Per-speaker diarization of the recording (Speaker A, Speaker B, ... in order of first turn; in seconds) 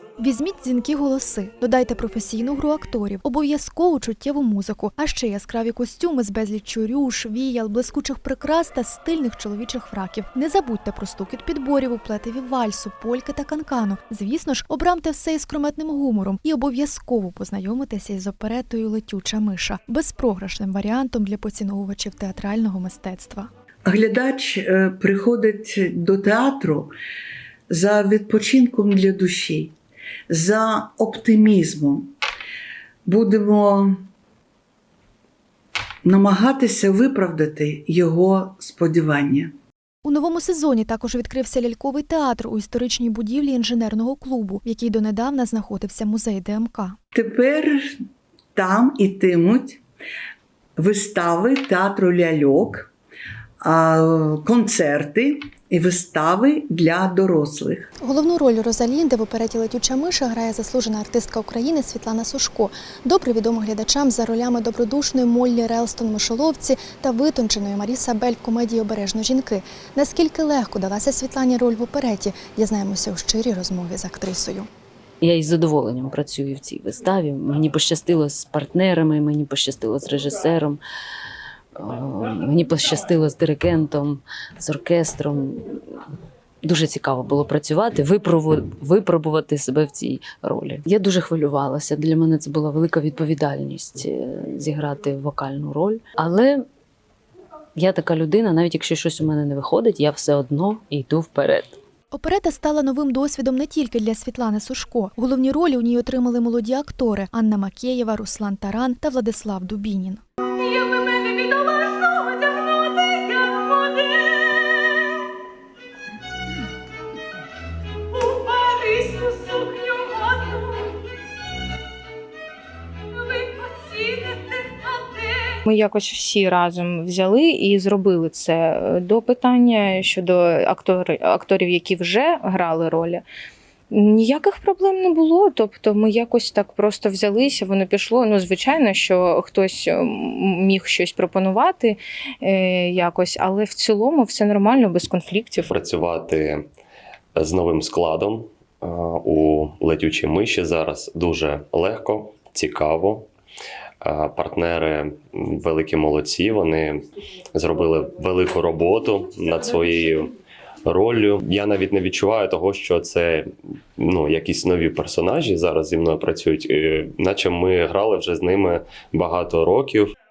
Speaker A: 0.2-23.5, 40.0-47.0, 58.0-74.7, 102.1-110.2
Speaker B: 23.9-26.9, 27.7-29.7, 30.3-32.1, 33.0-34.0, 36.0-39.5, 47.1-47.9, 48.5-49.8, 50.8-52.9, 53.6-57.9
Speaker C: 75.2-80.8, 81.8-85.9, 86.6-96.7, 97.8-101.8
Speaker D: 110.6-115.0, 118.1-120.9, 123.1-133.2, 133.9-145.7
Speaker E: 145.7-146.6, 147.3-153.3, 154.0-160.3, 160.8-170.1